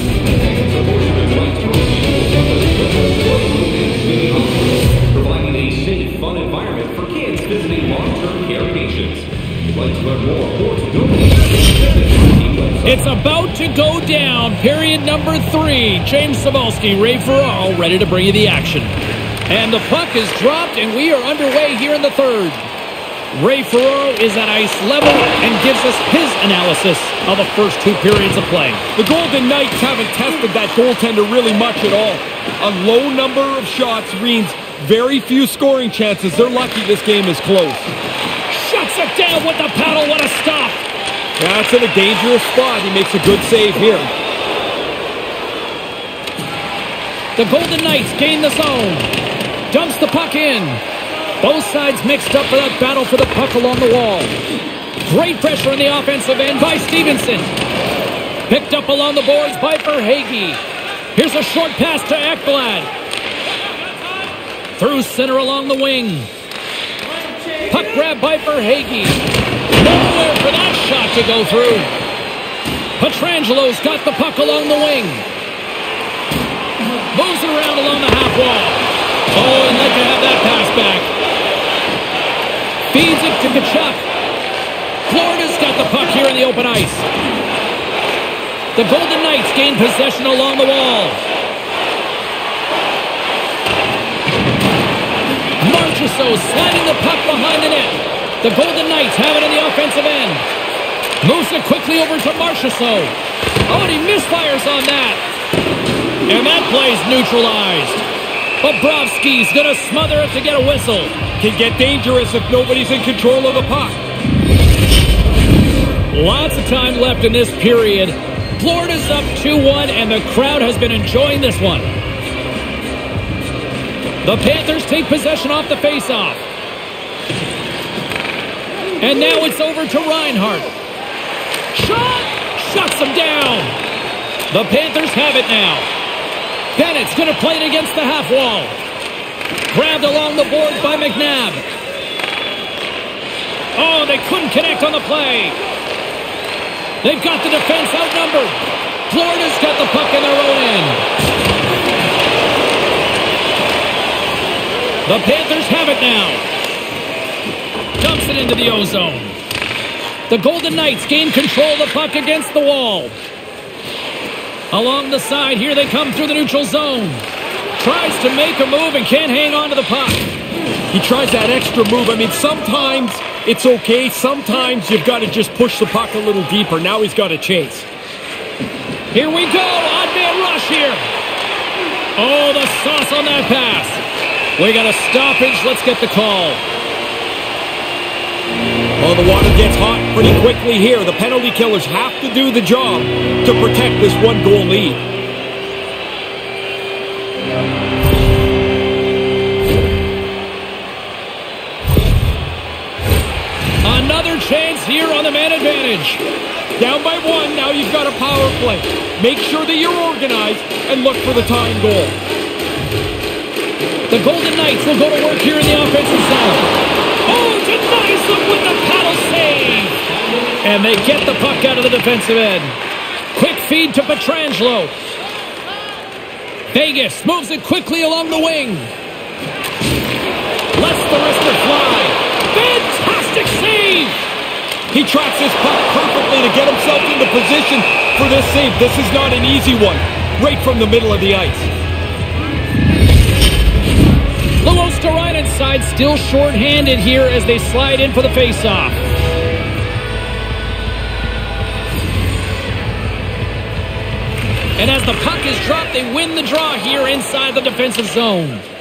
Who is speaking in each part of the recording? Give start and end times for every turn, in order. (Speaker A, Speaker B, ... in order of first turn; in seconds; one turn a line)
Speaker A: 0.4-13.1
Speaker B: 12.8-18.9
Speaker B: 19.5-22.6
Speaker B: 23.3-28.8
Speaker C: 28.9-37.9
Speaker B: 38.5-40.8
Speaker C: 41.4-44.1
Speaker B: 47.4-49.1
Speaker B: 49.7-50.8
Speaker B: 51.4-54.4
Speaker B: 55.0-57.5
Speaker B: 58.5-60.6
Speaker B: 61.1-62.9
Speaker B: 64.8-66.3
Speaker B: 67.7-69.2
Speaker B: 69.7-71.9
Speaker B: 73.0-75.2
Speaker B: 77.1-81.1
Speaker B: 82.9-84.0
Speaker B: 85.1-87.1
Speaker B: 88.7-91.2
Speaker B: 95.6-100.4
Speaker B: 101.2-103.1
Speaker B: 103.7-105.2
Speaker B: 106.3-108.0
Speaker B: 108.6-111.2
Speaker C: 111.4-114.0
Speaker B: 116.1-121.9
Speaker B: 124.2-126.4
Speaker B: 129.0-130.7
Speaker B: 131.7-133.7
Speaker B: 134.5-135.9
Speaker B: 136.7-138.8
Speaker B: 139.7-141.7
Speaker B: 143.8-145.6
Speaker B: 147.0-148.6
Speaker B: 149.1-151.0
Speaker B: 155.1-156.5
Speaker B: 158.0-159.3
Speaker B: 160.3-163.2
Speaker B: 164.7-167.2
Speaker B: 167.8-170.2
Speaker C: 170.9-177.9
Speaker B: 179.1-181.0
Speaker B: 182.2-184.0
Speaker B: 184.6-186.6
Speaker C: 189.0-195.0
Speaker B: 203.8-206.2
Speaker C: 206.8-212.2
Speaker B: 214.1-216.7
Speaker B: 217.2-220.0
Speaker B: 220.6-222.7
Speaker B: 223.3-224.9
Speaker B: 226.7-228.9
Speaker B: 230.7-234.2
Speaker C: 234.9-241.7
Speaker B: 244.6-249.0
Speaker B: 254.8-258.6